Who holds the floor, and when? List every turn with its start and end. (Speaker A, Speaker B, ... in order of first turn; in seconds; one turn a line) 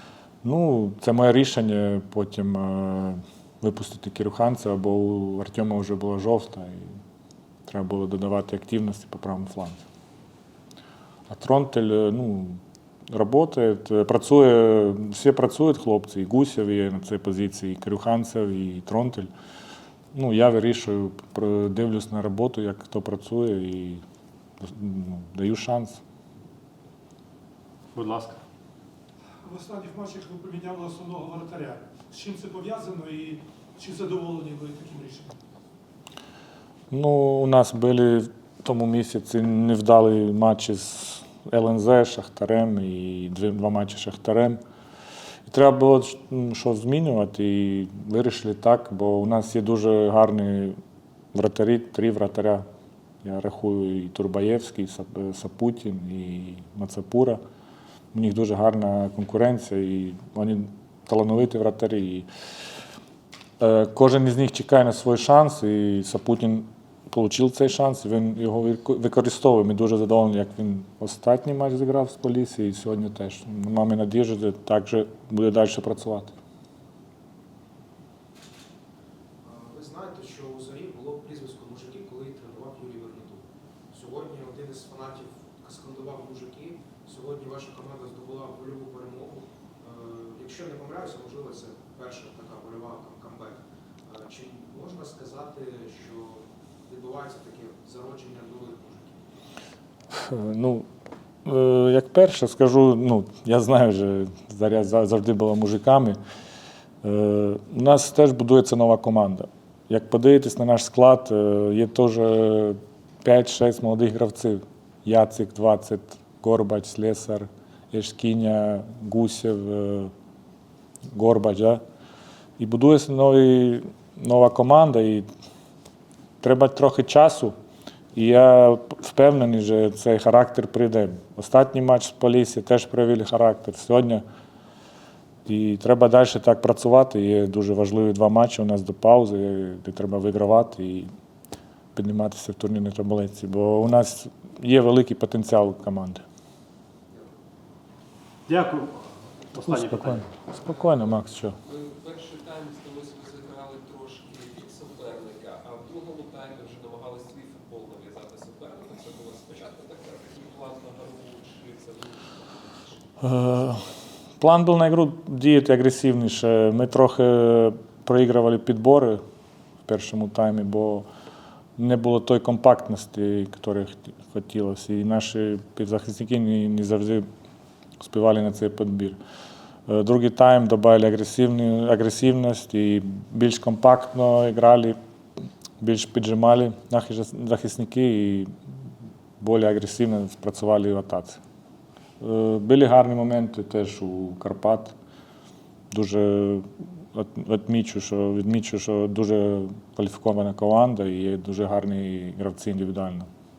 Speaker A: 0.4-6.8
Speaker A: 7.7-9.8
Speaker A: 11.3-12.6
Speaker A: 13.1-19.3
Speaker A: 20.1-24.0
Speaker A: 24.6-26.0
Speaker B: 27.9-28.4
Speaker C: 29.4-35.3
Speaker A: 36.9-44.6
Speaker A: 45.5-50.8
Speaker A: 51.3-52.6
Speaker A: 53.2-57.4
Speaker A: 58.1-62.3
Speaker A: 63.6-76.3
Speaker D: 79.4-99.3
Speaker A: 100.2-100.8
Speaker A: 101.4-106.2
Speaker A: 107.0-120.1
Speaker A: 121.1-121.8
Speaker A: 122.6-125.2
Speaker A: 126.4-127.5
Speaker A: 128.1-134.2
Speaker A: 135.4-141.1
Speaker A: 141.9-146.2
Speaker B: 148.5-150.2
Speaker A: 149.6-151.6
Speaker E: 150.7-151.0
Speaker E: 151.6-163.9
Speaker A: 163.3-163.8
Speaker A: 164.4-169.2
Speaker A: 169.8-171.1
Speaker A: 171.8-177.2
Speaker A: 178.0-179.2
Speaker A: 179.9-184.9
Speaker A: 185.8-188.5
Speaker A: 189.4-191.4
Speaker A: 192.2-194.9
Speaker A: 195.9-203.3